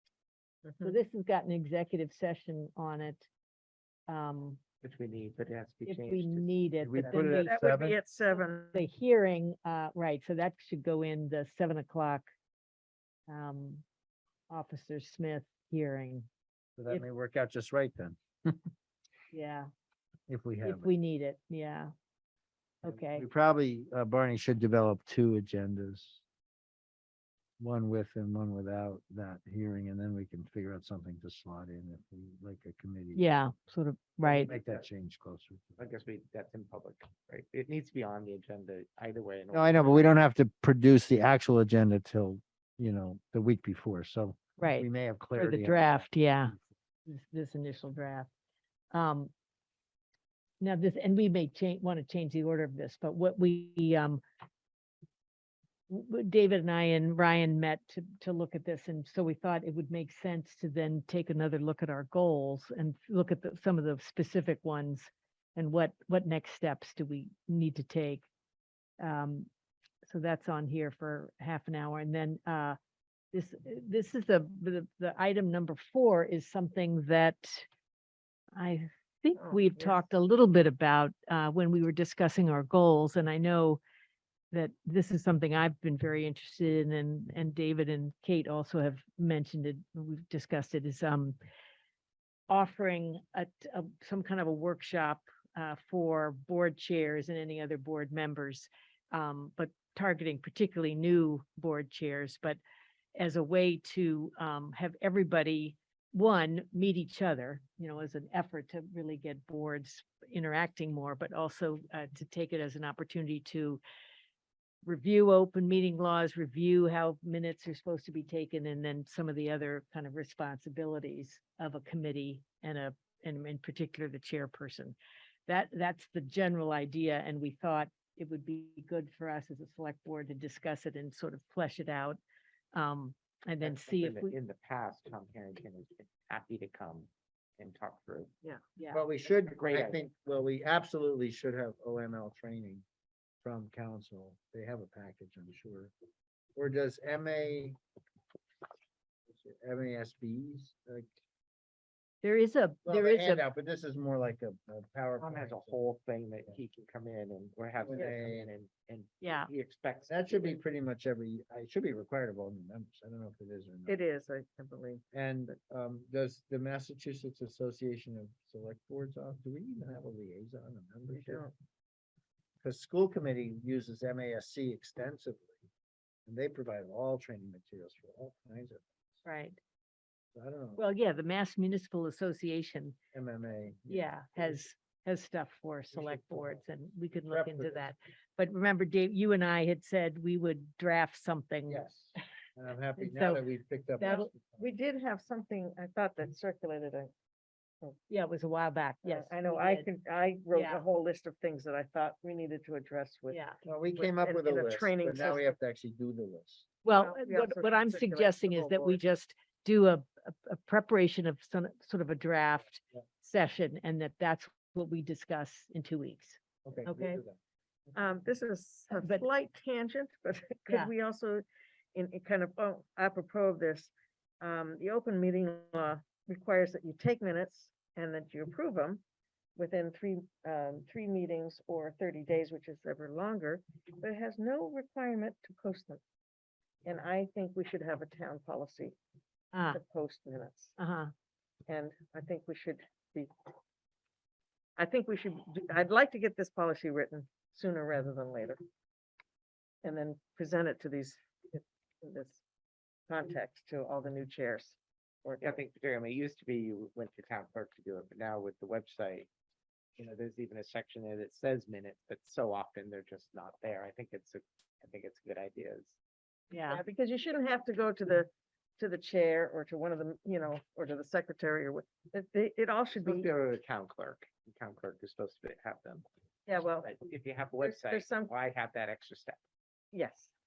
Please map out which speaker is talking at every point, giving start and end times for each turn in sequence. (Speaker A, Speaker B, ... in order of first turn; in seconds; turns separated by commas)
Speaker A: 0.7-0.9, Speaker B: 0.8-3.3, Speaker B: 4.1-4.6, Speaker C: 4.8-6.6, Speaker B: 5.9-7.5, Speaker D: 6.8-8.0, Speaker A: 7.2-8.8, Speaker B: 8.7-12.3, Speaker B: 13.3-13.8, Speaker B: 14.5-16.3, Speaker D: 16.8-18.6, Speaker B: 19.3-19.7, Speaker D: 20.3-20.9, Speaker B: 20.6-21.9, Speaker B: 22.8-23.2, Speaker D: 22.9-26.2, Speaker D: 27.6-33.2, Speaker B: 33.1-34.5, Speaker D: 34.2-35.9, Speaker C: 34.5-34.8, Speaker C: 35.8-40.2, Speaker D: 39.5-46.1, Speaker B: 44.6-46.5, Speaker B: 47.0-48.3, Speaker B: 48.9-49.3, Speaker B: 50.6-54.2, Speaker B: 55.9-68.3, Speaker B: 69.0-69.5, Speaker B: 70.0-72.8, Speaker B: 73.3-77.7, Speaker B: 78.6-83.8, Speaker A: 79.4-80.0, Speaker B: 84.5-91.4, Speaker B: 92.5-102.6, Speaker B: 103.2-113.8, Speaker B: 114.8-132.2, Speaker B: 132.7-134.3, Speaker C: 133.6-138.3, Speaker B: 138.8-139.0, Speaker D: 138.9-142.8, Speaker C: 139.5-140.0, Speaker D: 143.4-145.9, Speaker D: 146.6-147.8, Speaker D: 149.3-151.1, Speaker B: 152.2-153.4, Speaker D: 152.8-155.9, Speaker C: 155.2-160.6, Speaker D: 157.8-158.5, Speaker B: 159.2-159.5, Speaker D: 160.1-164.0, Speaker A: 163.9-165.0, Speaker D: 165.1-171.4, Speaker A: 171.1-171.5, Speaker D: 172.6-175.6, Speaker D: 176.3-179.2, Speaker B: 179.2-179.6, Speaker D: 180.3-180.8, Speaker B: 180.8-183.0, Speaker D: 183.1-184.6, Speaker B: 183.9-191.8, Speaker D: 185.9-186.6, Speaker D: 187.3-187.9, Speaker D: 191.7-194.6, Speaker B: 193.0-193.4, Speaker B: 194.0-194.3, Speaker A: 194.0-197.1, Speaker B: 198.1-199.9, Speaker A: 199.0-203.4, Speaker B: 200.5-200.8, Speaker B: 203.3-203.6, Speaker D: 203.6-206.7, Speaker A: 203.9-205.5, Speaker B: 206.8-217.2, Speaker A: 207.0-209.0, Speaker D: 216.6-217.4, Speaker A: 217.9-221.4, Speaker B: 218.9-219.2, Speaker A: 221.9-229.0, Speaker A: 229.6-236.0, Speaker A: 236.8-239.0, Speaker B: 239.5-239.8, Speaker A: 239.7-240.7, Speaker B: 240.8-241.1, Speaker A: 241.7-243.3, Speaker A: 244.8-248.6, Speaker A: 249.8-252.4, Speaker A: 253.1-255.6, Speaker C: 255.4-259.3, Speaker C: 260.0-266.0, Speaker B: 266.5-266.8, Speaker A: 266.6-273.3, Speaker C: 273.0-276.1, Speaker A: 276.5-276.9, Speaker C: 276.8-279.4, Speaker A: 277.6-278.3, Speaker A: 279.9-280.3